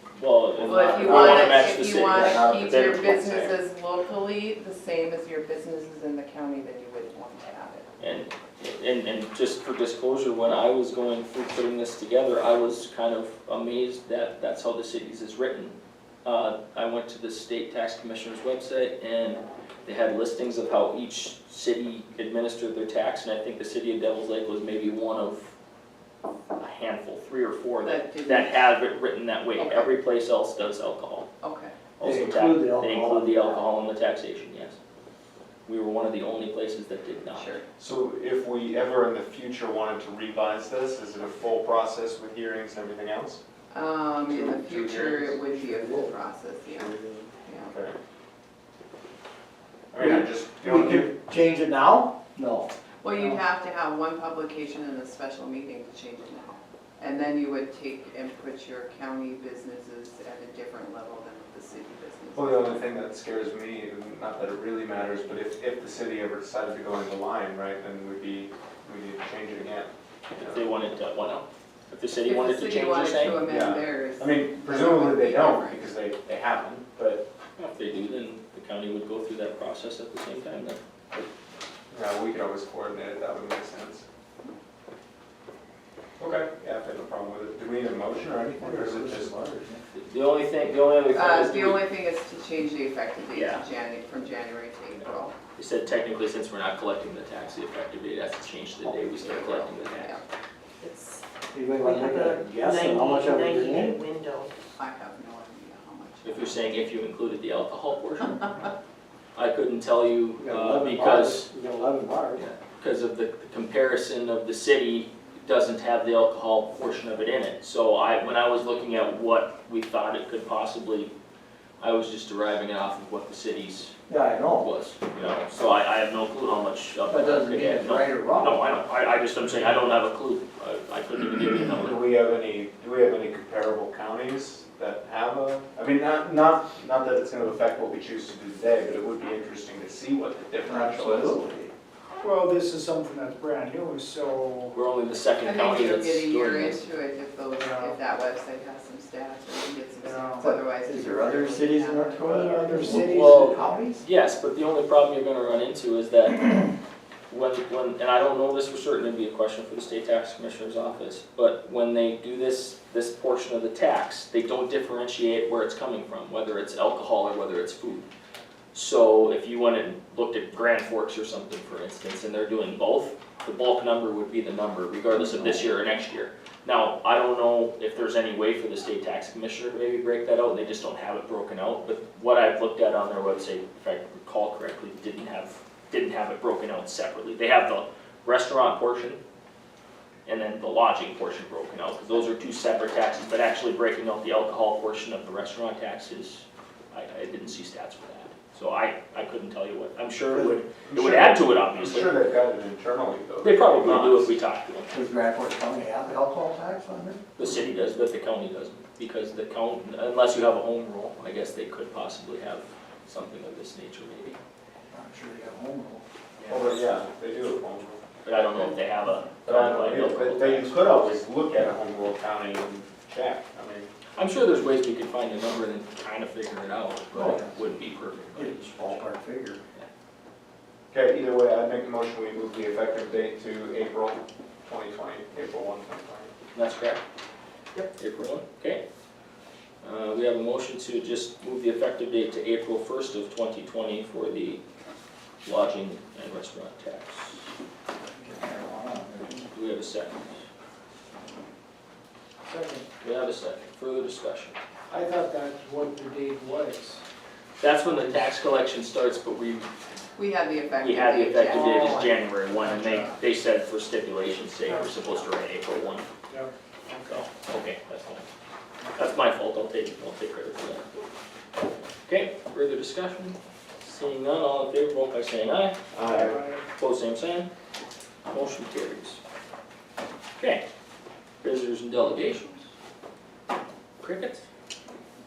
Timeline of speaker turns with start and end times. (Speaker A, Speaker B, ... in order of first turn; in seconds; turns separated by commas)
Speaker A: 0.2-3.4, Speaker B: 0.6-7.9, Speaker C: 0.8-3.6, Speaker A: 8.0-25.5, Speaker A: 26.6-31.3, Speaker B: 27.8-28.8, Speaker B: 29.6-29.9, Speaker B: 31.4-31.8, Speaker A: 32.0-34.8, Speaker D: 32.0-33.6, Speaker A: 35.7-37.6, Speaker B: 37.3-37.6, Speaker C: 37.8-43.4, Speaker B: 43.7-47.7, Speaker C: 44.3-45.4, Speaker D: 45.5-46.1, Speaker C: 46.7-48.0, Speaker C: 49.9-51.1, Speaker D: 50.0-52.7, Speaker B: 53.0-62.9, Speaker C: 62.4-70.6, Speaker A: 70.4-73.5, Speaker B: 72.2-75.9, Speaker C: 73.5-77.3, Speaker A: 77.6-81.3, Speaker C: 81.9-84.0, Speaker C: 86.2-89.3, Speaker D: 88.6-89.8, Speaker A: 89.9-91.9, Speaker B: 91.1-95.3, Speaker A: 93.3-93.6, Speaker A: 95.6-100.2, Speaker B: 99.1-100.2, Speaker E: 100.8-101.2, Speaker D: 101.5-104.0, Speaker E: 101.8-104.5, Speaker B: 104.8-106.8, Speaker A: 106.2-108.6, Speaker A: 109.3-111.5, Speaker D: 110.4-112.5, Speaker A: 112.4-121.1, Speaker A: 121.8-124.0, Speaker D: 124.1-124.7, Speaker A: 124.6-132.0, Speaker D: 127.1-128.7, Speaker C: 131.8-141.4, Speaker D: 140.7-141.7, Speaker F: 142.2-144.8, Speaker A: 144.7-146.8, Speaker B: 145.4-152.9, Speaker F: 147.6-148.0, Speaker F: 150.0-150.5, Speaker D: 150.4-154.0, Speaker F: 152.3-153.7, Speaker A: 153.0-156.7, Speaker A: 157.3-168.1, Speaker A: 168.7-189.2, Speaker D: 175.1-175.6, Speaker A: 190.3-202.2, Speaker C: 200.9-204.3, Speaker A: 203.4-205.0, Speaker D: 204.9-207.2, Speaker A: 207.4-214.4, Speaker D: 214.9-216.0, Speaker C: 216.5-218.0, Speaker A: 218.2-221.1, Speaker C: 219.4-223.9, Speaker A: 224.2-229.0, Speaker D: 227.1-227.5, Speaker D: 228.3-229.6, Speaker C: 230.9-236.3, Speaker A: 236.5-237.0, Speaker A: 237.9-238.8, Speaker A: 239.8-244.6, Speaker A: 245.4-247.4, Speaker D: 248.2-249.5, Speaker A: 249.5-250.4, Speaker F: 252.5-252.8, Speaker A: 253.0-254.6, Speaker F: 254.9-257.0, Speaker A: 257.6-259.7, Speaker B: 260.2-262.2, Speaker A: 260.8-266.1, Speaker F: 261.6-263.1, Speaker F: 266.3-267.3, Speaker A: 267.1-268.2, Speaker A: 268.9-270.9, Speaker A: 272.1-275.8, Speaker C: 275.9-276.5, Speaker F: 276.1-276.6, Speaker A: 276.8-277.5, Speaker A: 278.3-279.2, Speaker A: 280.4-280.6, Speaker A: 281.4-282.7, Speaker A: 284.0-284.5